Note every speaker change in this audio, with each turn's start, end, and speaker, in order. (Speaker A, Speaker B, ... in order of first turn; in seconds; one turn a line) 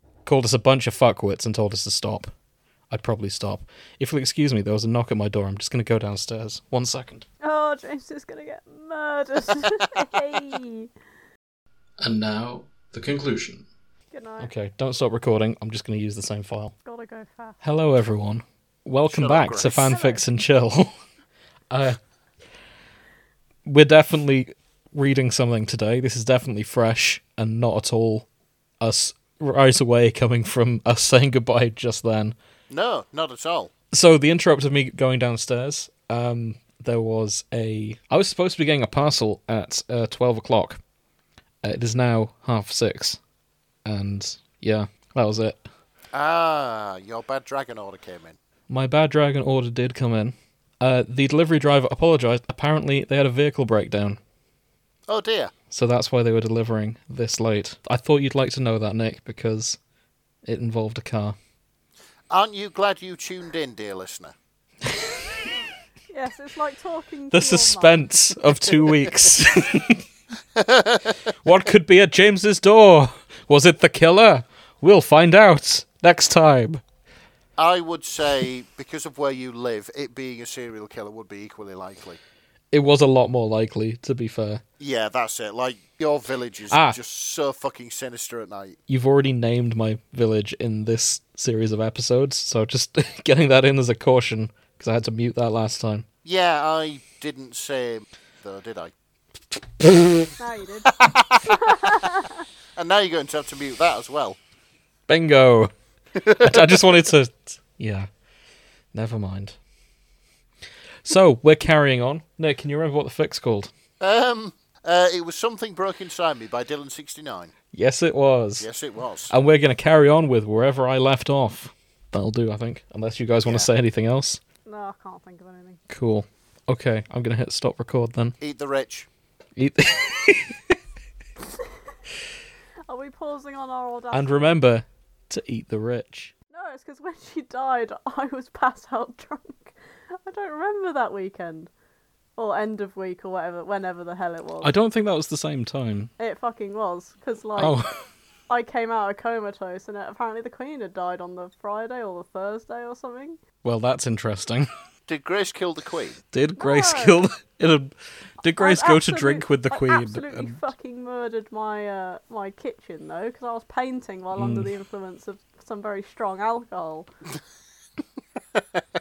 Speaker A: 0.3-2.3
Speaker A: 2.9-7.2
Speaker B: 7.4-10.9
Speaker A: 12.0-13.7
Speaker B: 14.1-14.5
Speaker A: 14.4-16.7
Speaker B: 16.9-17.6
Speaker A: 17.6-20.9
Speaker C: 19.1-19.9
Speaker B: 19.7-20.2
Speaker A: 21.7-22.0
Speaker A: 23.7-28.3
Speaker A: 28.8-32.4
Speaker C: 32.7-33.7
Speaker A: 33.9-40.8
Speaker A: 41.6-43.2
Speaker A: 43.9-45.6
Speaker C: 46.1-48.4
Speaker A: 48.7-54.2
Speaker C: 55.1-55.5
Speaker A: 55.7-59.8
Speaker A: 60.5-61.4
Speaker C: 62.3-64.3
Speaker B: 66.1-68.1
Speaker A: 67.3-70.0
Speaker C: 70.6-71.2
Speaker A: 71.4-76.8
Speaker C: 77.6-82.2
Speaker A: 82.7-84.6
Speaker C: 84.8-88.8
Speaker A: 86.7-87.0
Speaker A: 88.9-96.1
Speaker C: 96.2-98.9
Speaker B: 100.4-100.9
Speaker C: 101.0-101.5
Speaker B: 101.5-102.4
Speaker C: 102.8-104.4
Speaker A: 105.1-105.7
Speaker C: 106.2-106.8
Speaker A: 106.3-108.1
Speaker A: 108.9-109.6
Speaker A: 111.0-113.7
Speaker C: 114.0-117.5
Speaker A: 117.7-118.7
Speaker C: 118.6-119.3
Speaker A: 119.3-124.4
Speaker B: 124.7-125.8
Speaker A: 125.9-128.4
Speaker C: 128.4-129.1
Speaker A: 129.6-130.6
Speaker B: 132.9-134.6
Speaker A: 134.1-136.3
Speaker B: 136.5-141.7
Speaker B: 142.4-144.7
Speaker A: 144.6-146.1
Speaker B: 146.2-147.8
Speaker A: 147.6-147.9
Speaker B: 148.5-153.4
Speaker A: 153.6-154.7
Speaker C: 155.1-156.2
Speaker A: 156.3-160.6
Speaker B: 156.6-157.2
Speaker B: 158.6-167.1
Speaker A: 164.4-164.7